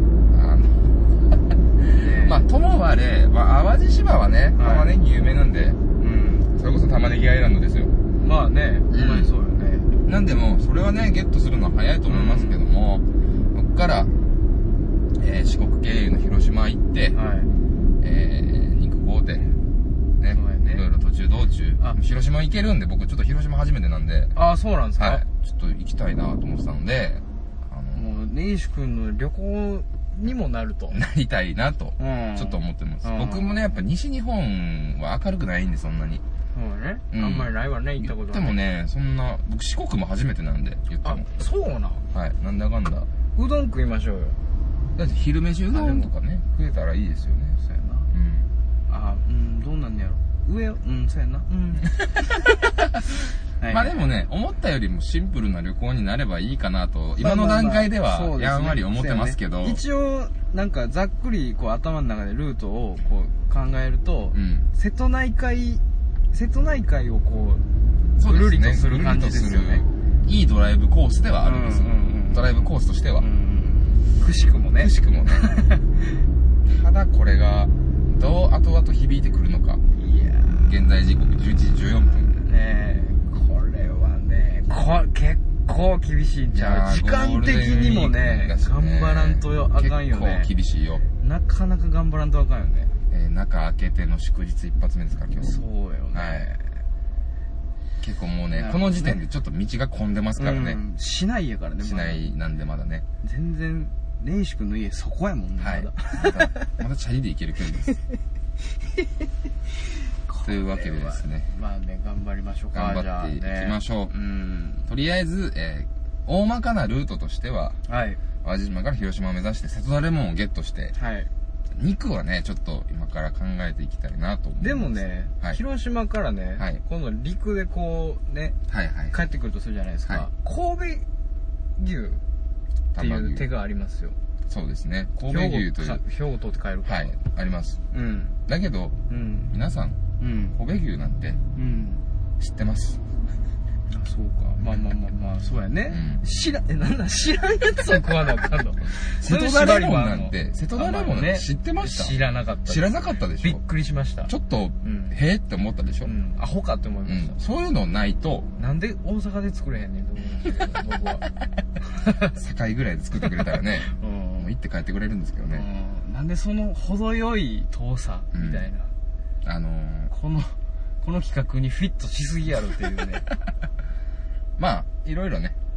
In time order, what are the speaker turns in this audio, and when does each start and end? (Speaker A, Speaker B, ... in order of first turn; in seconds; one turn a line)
Speaker A: 0.3-5.8
Speaker B: 2.0-2.4
Speaker B: 4.6-4.9
Speaker B: 6.0-6.5
Speaker A: 6.6-7.9
Speaker B: 8.2-9.9
Speaker A: 8.9-9.3
Speaker A: 10.1-14.1
Speaker B: 12.1-12.6
Speaker A: 15.2-17.1
Speaker B: 17.1-17.5
Speaker A: 18.0-19.5
Speaker A: 20.2-24.4
Speaker B: 20.3-20.9
Speaker B: 24.4-25.2
Speaker A: 25.0-28.1
Speaker B: 27.9-31.0
Speaker A: 30.9-36.2
Speaker B: 32.0-33.6
Speaker B: 36.5-38.6
Speaker A: 37.1-41.3
Speaker B: 41.0-42.0
Speaker A: 42.1-43.1
Speaker B: 43.4-44.4
Speaker A: 45.0-47.6
Speaker B: 45.7-46.1
Speaker B: 47.6-48.1
Speaker A: 48.1-48.5
Speaker B: 48.9-51.9
Speaker B: 53.6-54.0
Speaker A: 53.7-59.8
Speaker B: 57.2-65.8
Speaker A: 64.3-64.7
Speaker B: 66.3-67.7
Speaker A: 68.2-73.3
Speaker B: 68.2-69.9
Speaker B: 71.4-72.7
Speaker B: 73.2-75.9
Speaker A: 74.8-75.5
Speaker A: 76.7-79.8
Speaker B: 80.0-80.7
Speaker A: 80.6-82.3
Speaker B: 82.3-90.5
Speaker A: 86.5-91.0
Speaker B: 91.2-92.9
Speaker A: 93.1-95.6
Speaker B: 95.4-96.7
Speaker A: 96.1-96.5
Speaker A: 98.0-100.8
Speaker B: 98.5-99.2
Speaker B: 100.4-102.2
Speaker A: 101.8-103.1
Speaker B: 103.2-106.7
Speaker A: 105.6-108.0
Speaker B: 110.3-114.9
Speaker A: 110.4-111.5
Speaker A: 112.7-114.1
Speaker A: 114.9-117.8
Speaker B: 117.9-118.2
Speaker A: 118.4-120.9
Speaker B: 120.9-121.3
Speaker A: 121.7-125.6
Speaker B: 124.6-128.6
Speaker A: 128.7-129.2
Speaker B: 129.1-131.1
Speaker B: 131.8-132.2
Speaker A: 132.9-133.5
Speaker B: 133.0-134.2
Speaker A: 134.5-136.0
Speaker B: 135.2-137.2
Speaker A: 136.9-137.8
Speaker B: 137.9-138.4
Speaker A: 138.5-139.0
Speaker B: 139.1-139.5
Speaker A: 139.5-140.0
Speaker B: 140.2-140.6
Speaker A: 140.6-141.4
Speaker B: 141.6-142.0
Speaker A: 142.4-143.0
Speaker B: 143.9-154.3
Speaker A: 145.9-146.2
Speaker A: 149.1-153.6
Speaker A: 154.3-156.1
Speaker B: 154.8-155.1
Speaker B: 156.0-157.3
Speaker A: 157.1-158.5
Speaker B: 158.6-161.3
Speaker B: 161.8-162.3
Speaker A: 162.3-165.7
Speaker B: 163.9-164.5
Speaker B: 165.5-168.9
Speaker A: 168.3-168.6
Speaker A: 169.4-170.1
Speaker B: 170.1-173.3
Speaker A: 174.6-175.6